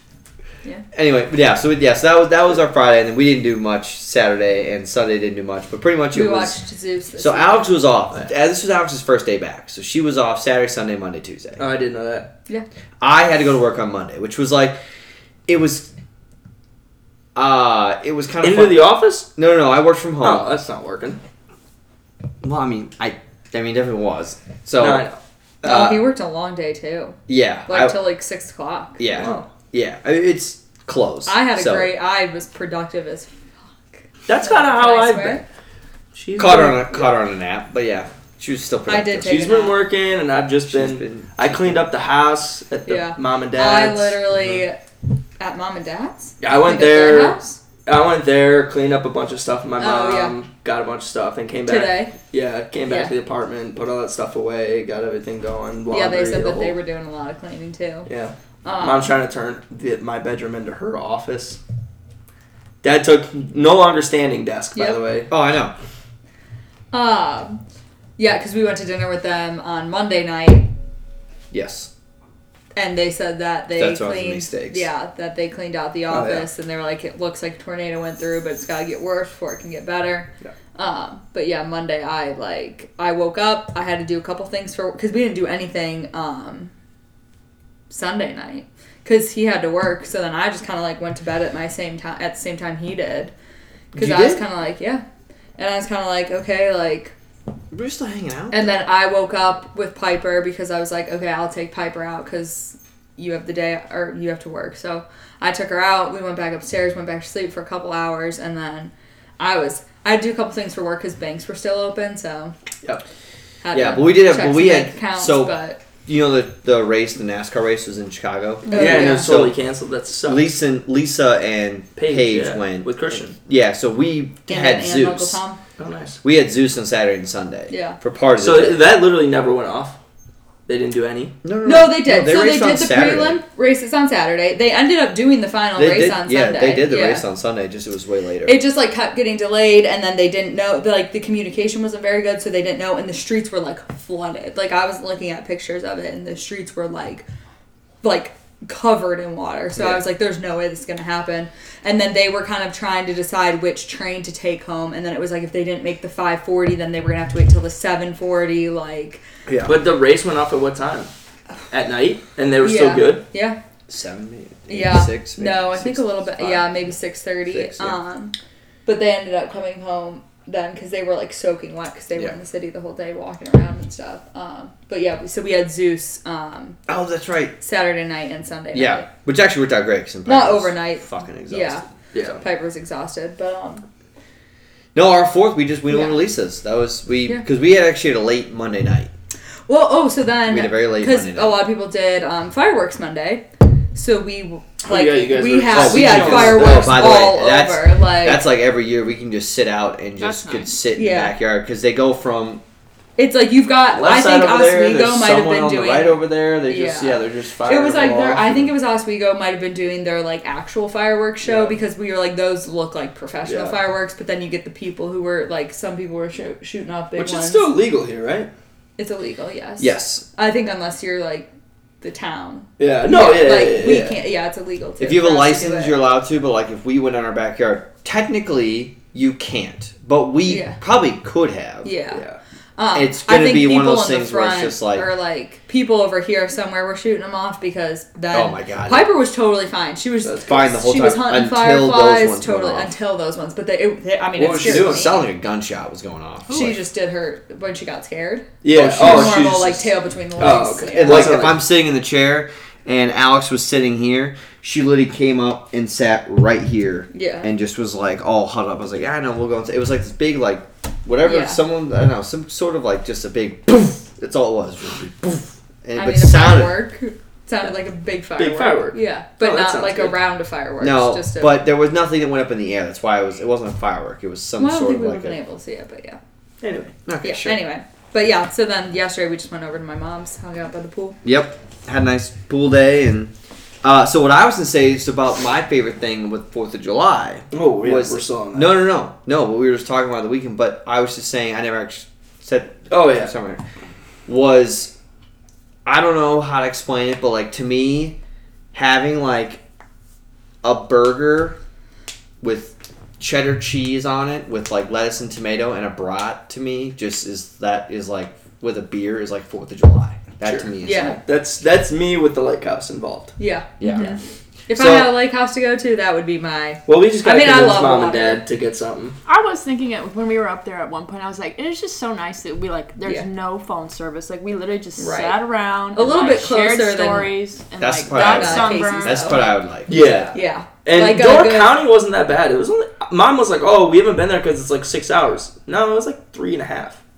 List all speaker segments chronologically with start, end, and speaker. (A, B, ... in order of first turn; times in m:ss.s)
0:00.9-0:06.6 A
0:06.1-0:07.9 B
0:07.2-0:11.6 A
0:11.6-0:12.3 C
0:13.0-0:14.8 A
0:15.5-0:15.9 A
0:17.4-0:20.5 A
0:18.4-0:19.3 C
0:20.2-0:21.2 C
0:22.4-0:25.0 A
0:24.8-0:25.8 C
0:25.6-0:26.0 A
0:25.6-0:29.0 B
0:27.3-0:28.0 A
0:29.0-0:31.9 A
0:29.1-0:29.5 C
0:31.3-0:33.3 B
0:33.9-0:35.4 B
0:34.3-0:35.4 C
0:36.1-0:37.0 C
0:36.4-0:39.4 A
0:38.9-0:39.8 B
0:39.2-0:44.3 C
0:40.7-0:41.9 A
0:42.9-0:44.8 B
0:45.4-0:47.6 B
0:46.4-0:56.8 C
0:49.8-0:50.4 B
0:51.7-0:52.2 B
0:52.9-0:53.1 B
0:55.9-0:58.1 B
0:58.1-1:01.6 C
0:58.6-0:59.1 B
1:02.8-1:05.3 C
1:05.3-1:05.7 A
1:06.9-1:07.6 B
1:08.2-1:10.7 B
1:11.5-1:11.9 A
1:12.8-1:26.7 B
1:13.8-1:14.9 A
1:16.1-1:16.5 C
1:27.9-1:33.3 B
1:33.9-1:34.4 A
1:33.9-1:35.0 B
1:35.6-1:37.1 B
1:37.7-1:38.8 A
1:38.5-1:52.6 B
1:53.6-1:55.8 B
1:53.7-1:59.6 A
1:58.7-1:59.3 B
1:58.7-2:00.4 C
2:00.2-2:05.4 A
2:02.0-2:03.4 C
2:04.5-2:05.6 B
2:05.8-2:06.2 C
2:06.2-2:08.8 A
2:07.7-2:08.0 B
2:08.4-2:10.0 C
2:10.7-2:11.4 C
2:11.4-2:13.4 A
2:11.6-2:17.2 B
2:15.8-2:18.6 A
2:18.4-2:27.3 B
2:28.0-2:39.2 B
2:39.5-2:39.7 A
2:39.6-2:41.1 C
2:41.7-2:43.2 C
2:42.6-2:43.6 B
2:43.9-2:46.6 A
2:44.7-2:48.3 B
2:47.5-2:48.0 A
2:48.9-2:56.8 B
2:56.9-2:57.6 A
2:57.6-2:59.1 B
2:58.7-3:01.8 A
3:00.3-3:03.8 B
3:02.1-3:02.4 C
3:04.9-3:09.1 A
3:05.9-3:06.2 B
3:09.7-3:18.5 B
3:10.5-3:11.6 A
3:14.8-3:17.3 C
3:15.7-3:22.6 A
3:20.2-3:20.8 D
3:20.9-3:21.4 B
3:23.2-3:37.7 B
3:23.9-3:25.2 C
3:25.1-3:28.7 A
3:31.4-3:31.8 C
3:33.4-3:33.8 C
3:37.2-3:38.5 C
3:39.0-3:41.5 B
3:39.8-3:40.2 A
3:42.0-3:46.0 B
3:42.8-3:44.2 C
3:45.0-3:51.9 A
3:50.5-3:50.8 B
3:51.8-3:52.2 B
3:52.1-3:52.4 C
3:52.8-4:05.2 B
3:53.0-3:55.1 A
3:58.3-3:59.1 A
4:00.2-4:00.6 C
4:00.4-4:02.9 A
4:04.4-4:06.8 A
4:04.4-4:05.1 C
4:06.5-4:11.5 B
4:08.6-4:11.6 C
4:08.7-4:09.6 A
4:10.9-4:26.8 A
4:17.1-4:17.5 B
4:21.2-4:21.6 B
4:26.0-4:31.6 B
4:28.4-4:30.2 C
4:30.8-4:35.4 A
4:34.6-4:36.2 B
4:36.6-4:36.9 C
4:37.1-4:37.6 A
4:37.2-4:41.2 B
4:41.2-4:53.6 A
4:47.5-4:48.8 C
4:52.9-4:53.3 C
4:54.3-4:54.9 A
4:55.9-4:58.2 A
4:58.7-4:59.6 A
5:00.6-5:01.6 A
5:02.4-5:11.2 A
5:10.4-5:13.4 C
5:10.8-5:11.2 B
5:13.4-5:18.4 B
5:13.8-5:14.1 A
5:13.9-5:14.2 D
5:14.7-5:15.1 A
5:16.9-5:19.2 C
5:19.3-5:29.6 D
5:25.0-5:27.4 B
5:27.8-5:30.4 A
5:28.1-5:31.8 B
5:29.9-5:37.0 C